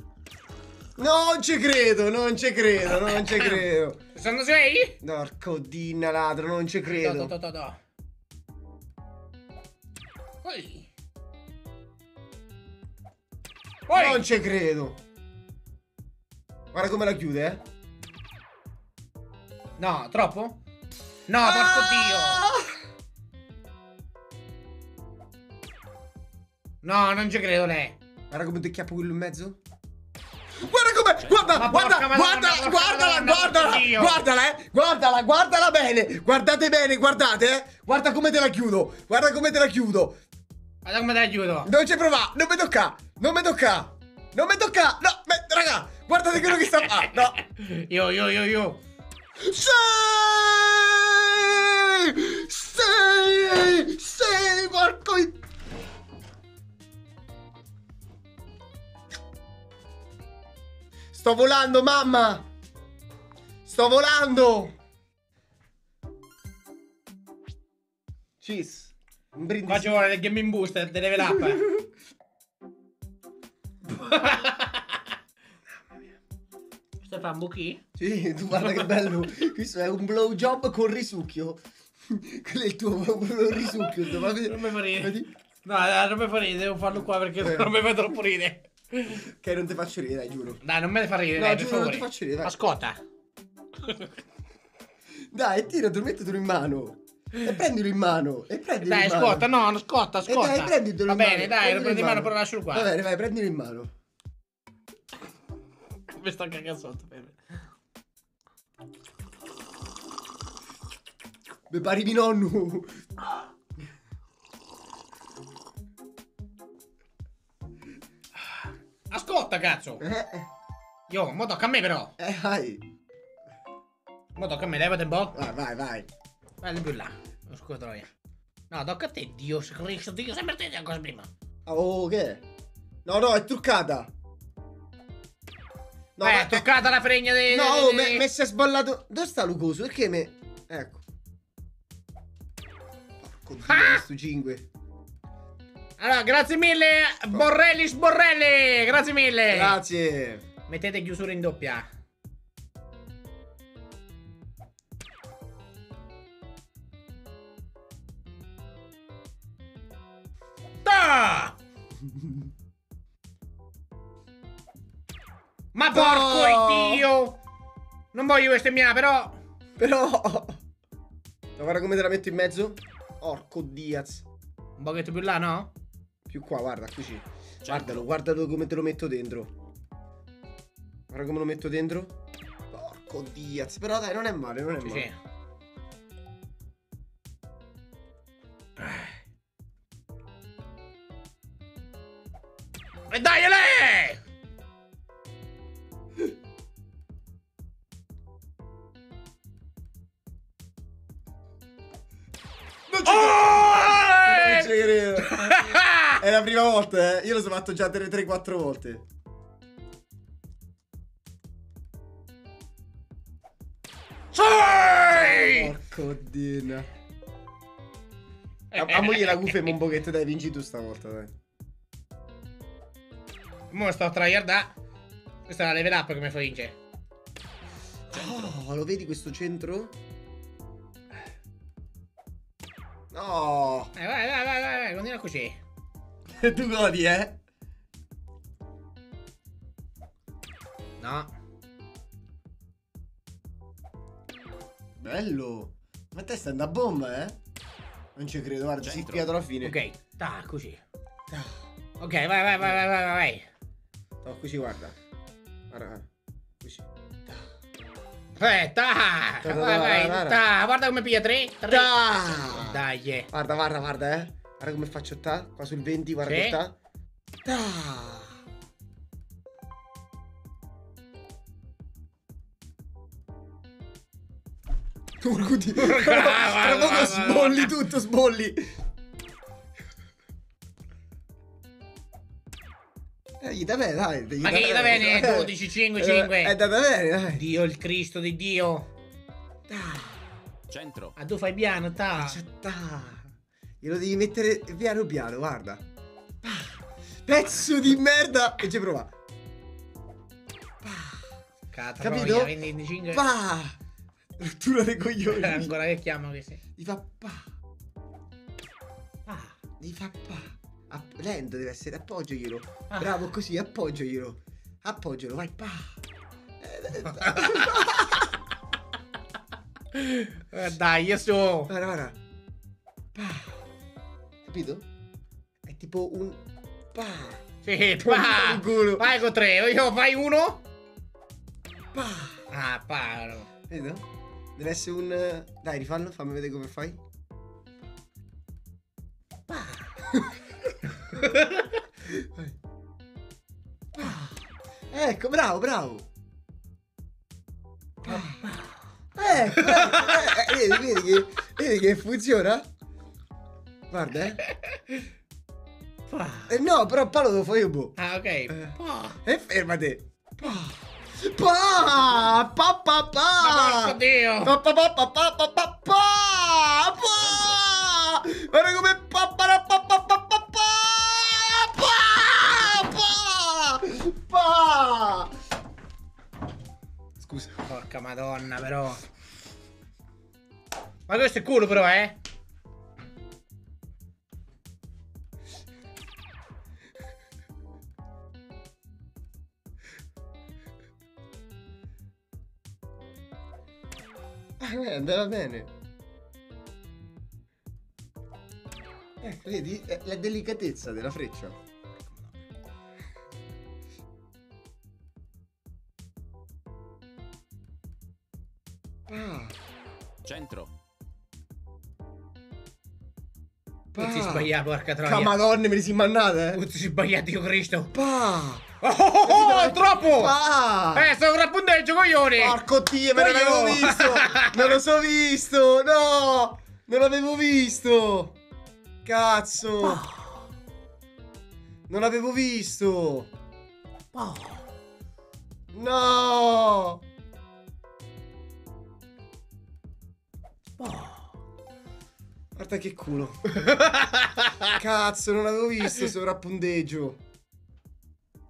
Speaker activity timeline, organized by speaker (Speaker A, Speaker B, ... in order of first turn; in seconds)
Speaker A: 1.0-4.0, 5.0-7.3, 13.9-15.0, 16.7-17.6, 21.4-22.8, 28.3-29.6, 30.6-40.2, 41.6-47.4, 49.4-55.4, 61.1-62.5, 63.6-64.7, 68.4-70.0, 78.0-85.3, 87.4-87.7, 89.2-90.6, 91.3-92.5, 95.3-99.5, 100.2-103.9, 111.7-113.0, 120.0-120.5, 122.2-122.8, 125.3-126.1, 131.7-132.4, 133.1-134.1, 136.2-136.7, 137.5-141.0, 143.2-144.7, 149.5-150.4, 165.9-167.1, 169.8-170.6, 171.6-174.2, 176.3-179.5, 181.1-182.2, 182.7-185.1, 202.9-209.1, 215.1-216.9, 218.8-221.3, 228.1-230.0, 233.1-233.9, 236.3-237.4, 245.0-247.4, 248.2-249.8, 251.3-251.6, 254.2-254.9, 255.7-256.1, 256.6-257.4, 259.4-260.4, 261.7-266.8, 267.4-268.4, 275.2-278.7, 283.4-287.4, 289.7-290.2, 292.2-293.3, 293.8-295.8, 296.4-299.1, 300.8-301.3, 302.0-302.6, 303.1-303.8, 304.4-305.7, 306.8-307.5, 309.8-316.0, 316.6-318.3, 321.7-322.2, 323.1-323.6, 324.4-324.9, 325.6-326.4, 326.9-327.4, 328.0-329.1, 331.9-332.4, 333.7-334.1, 334.6-337.0, 342.0-342.6, 343.9-346.1, 348.1-348.3, 349.2-352.7, 353.9-354.4, 356.5-358.0, 358.5-375.3, 377.2-377.6, 394.6-395.7, 399.2-401.6, 409.1-409.6, 413.9-414.5, 415.0-416.6, 417.9-418.7, 419.2-421.1, 422.4-428.4, 429.1-430.1, 431.9-433.3, 435.7-437.0, 442.6-443.7, 444.7-447.2
Speaker B: 3.2-5.0, 6.9-7.8, 10.4-10.9, 13.9-14.2, 19.8-20.6, 21.3-22.4, 26.8-28.0, 31.5-34.2, 40.8-41.7, 47.5-48.8, 69.7-71.7, 74.0-75.0, 77.0-77.8, 78.6-78.9, 84.3-89.2, 90.6-93.0, 93.8-94.1, 98.8-102.9, 106.1-107.4, 119.1-120.0, 121.1-122.1, 124.3-125.4, 126.6-128.1, 128.7-131.3, 136.2-138.2, 143.7-144.0, 146.0-149.8, 150.7-151.9, 160.8-161.6, 165.7-167.4, 168.1-169.4, 174.8-175.7, 184.8-185.2, 188.8-189.2, 193.1-194.2, 203.1-206.2, 214.3-215.7, 218.7-219.8, 223.7-224.7, 225.5-226.8, 233.9-235.6, 241.0-241.3, 249.6-250.8, 252.0-253.5, 258.4-263.3, 266.2-266.6, 275.8-277.8, 284.4-286.6, 287.3-288.9, 291.2-292.4, 301.7-303.3, 305.3-306.6, 309.3-309.6, 312.9-313.2, 317.1-318.3, 319.9-321.7, 327.6-330.6, 332.5-333.5, 339.5-339.9, 341.1-341.7, 348.0-348.8, 349.4-350.8, 354.4-354.8, 356.1-356.5, 358.0-359.2, 363.4-364.6, 377.7-379.0, 381.1-382.2, 414.0-415.4, 416.5-417.9, 418.8-420.4, 420.9-422.6, 423.1-424.7, 429.8-430.4, 434.1-434.6, 440.8-441.3, 443.6-444.8
Speaker C: 177.7-178.0, 228.2-228.5, 248.8-249.3, 290.7-291.2, 367.2-367.6, 410.2-410.7